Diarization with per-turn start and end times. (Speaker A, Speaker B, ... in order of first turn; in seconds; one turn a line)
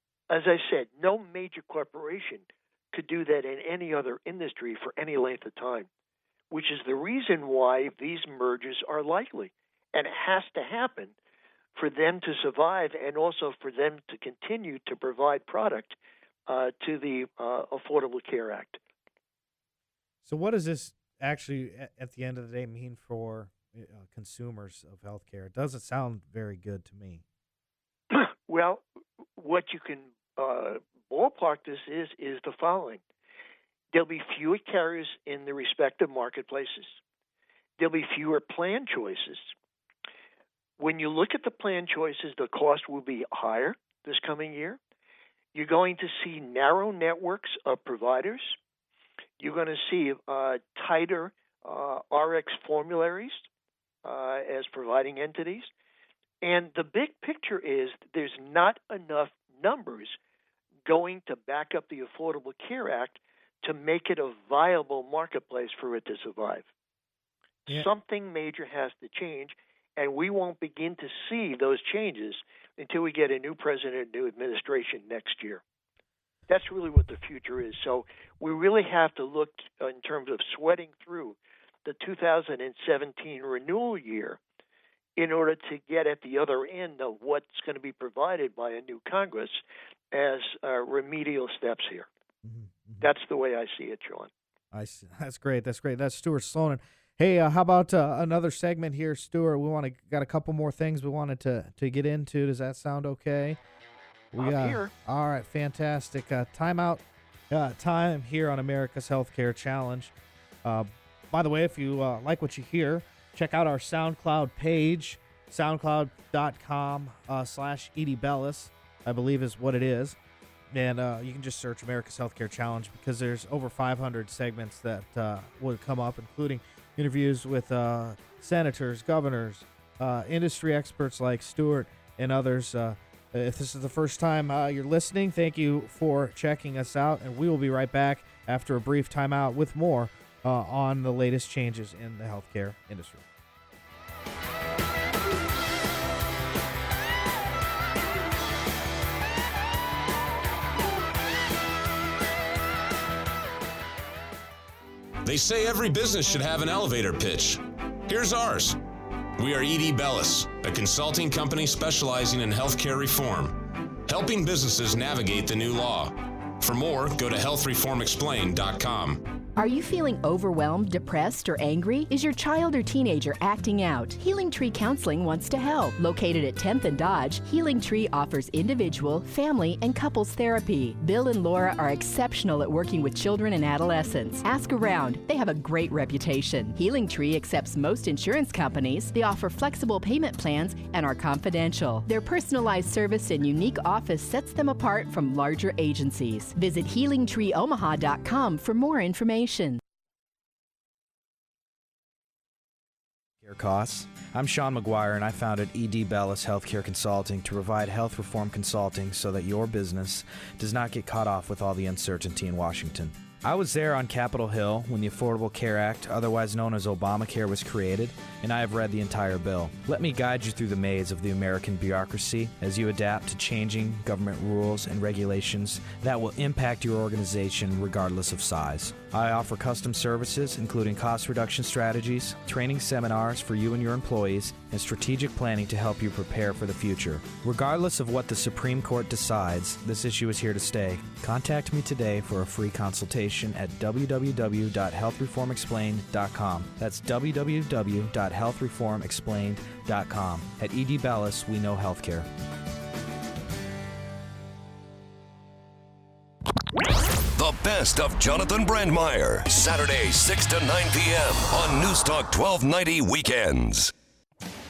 Speaker A: 0.3-5.9
Speaker A: 6.5-11.1
Speaker A: 11.8-15.9
Speaker A: 16.5-18.8
Speaker B: 20.2-27.2
Speaker A: 28.1-28.8
Speaker A: 29.4-33.0
Speaker A: 33.9-37.0
Speaker A: 37.8-39.5
Speaker A: 40.8-44.8
Speaker A: 45.5-48.6
Speaker A: 49.4-53.5
Speaker A: 54.0-55.7
Speaker A: 56.4-60.2
Speaker A: 60.9-66.7
Speaker A: 67.7-75.6
Speaker A: 76.5-84.4
Speaker A: 85.2-92.1
Speaker B: 92.4-93.1
Speaker A: 93.0-94.3
Speaker B: 94.7-103.6
Speaker B: 104.3-110.1
Speaker A: 104.4-104.9
Speaker B: 110.6-120.2
Speaker B: 120.7-143.3
Speaker C: 155.2-158.8
Speaker C: 159.4-169.2
Speaker D: 169.6-199.8
Speaker E: 203.4-252.3
Speaker F: 257.4-263.9